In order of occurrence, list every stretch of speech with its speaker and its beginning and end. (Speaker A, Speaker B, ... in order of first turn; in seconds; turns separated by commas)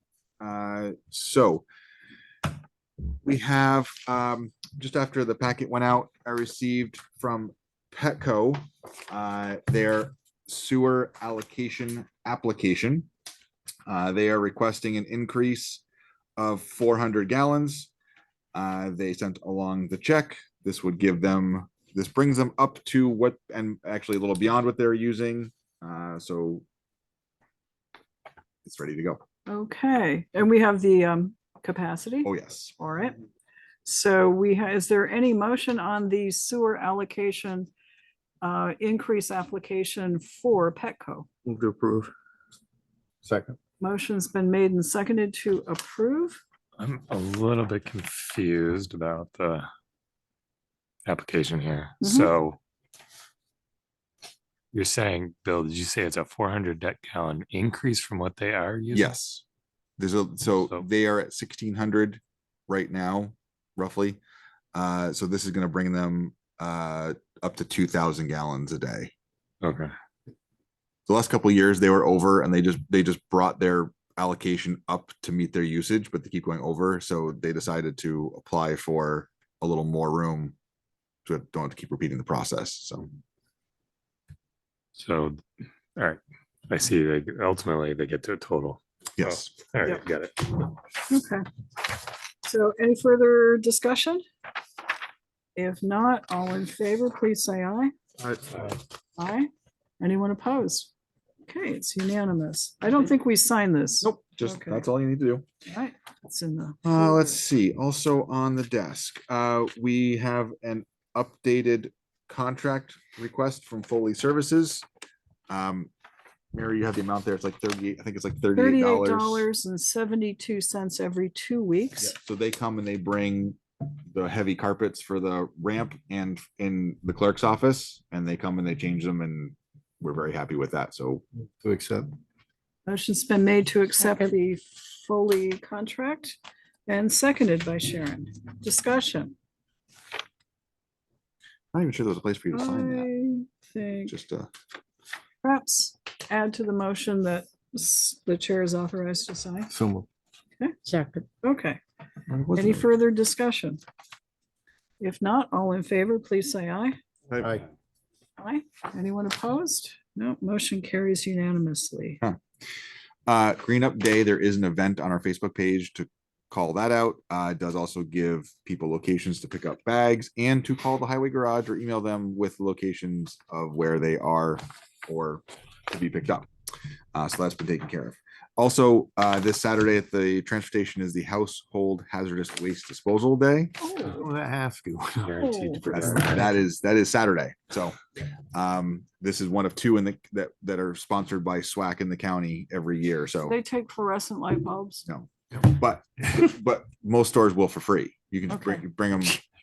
Speaker A: 0.4-1.7, Speaker A: 3.2-13.1, Speaker A: 13.9-15.8, Speaker A: 16.4-17.9, Speaker A: 18.5-26.6, Speaker A: 28.6-29.2, Speaker B: 29.5-33.2, Speaker A: 32.2-32.7, Speaker B: 33.8-37.7, Speaker B: 38.4-41.3, Speaker C: 41.5-42.1, Speaker C: 43.2-43.6, Speaker B: 43.8-46.4, Speaker D: 46.8-49.7, Speaker D: 51.0-52.6, Speaker B: 52.0-52.3, Speaker D: 54.7-59.1, Speaker A: 58.9-59.4, Speaker A: 60.0-64.2, Speaker A: 64.7-69.1, Speaker D: 69.6-69.9, Speaker A: 71.1-80.5, Speaker A: 81.2-83.2, Speaker D: 85.0-85.4, Speaker D: 86.0-90.8, Speaker A: 89.2-89.5, Speaker B: 91.1-91.4, Speaker B: 92.4-94.2, Speaker B: 95.5-97.9, Speaker B: 99.2-99.5, Speaker B: 100.0-100.9, Speaker B: 101.5-104.9, Speaker A: 104.0-105.4, Speaker B: 105.7-107.3, Speaker A: 106.8-114.8, Speaker A: 115.5-115.9, Speaker A: 116.5-119.5, Speaker B: 118.5-122.2, Speaker A: 122.0-123.6, Speaker A: 124.1-131.2, Speaker C: 131.6-132.2, Speaker B: 132.9-139.3, Speaker A: 141.7-143.1, Speaker B: 142.5-144.1, Speaker A: 144.1-144.5, Speaker B: 145.4-149.7, Speaker C: 149.7-150.1, Speaker C: 150.9-151.2, Speaker B: 151.4-151.8, Speaker A: 152.3-152.8, Speaker B: 152.5-153.8, Speaker B: 155.0-157.0, Speaker B: 158.4-162.2, Speaker A: 163.3-176.5, Speaker A: 177.1-183.8, Speaker B: 183.8-184.2, Speaker C: 184.0-186.4, Speaker D: 185.2-186.5, Speaker B: 185.4-185.9, Speaker A: 185.9-188.0, Speaker A: 188.5-193.6, Speaker B: 193.4-195.0, Speaker A: 195.1-199.4, Speaker B: 198.5-198.8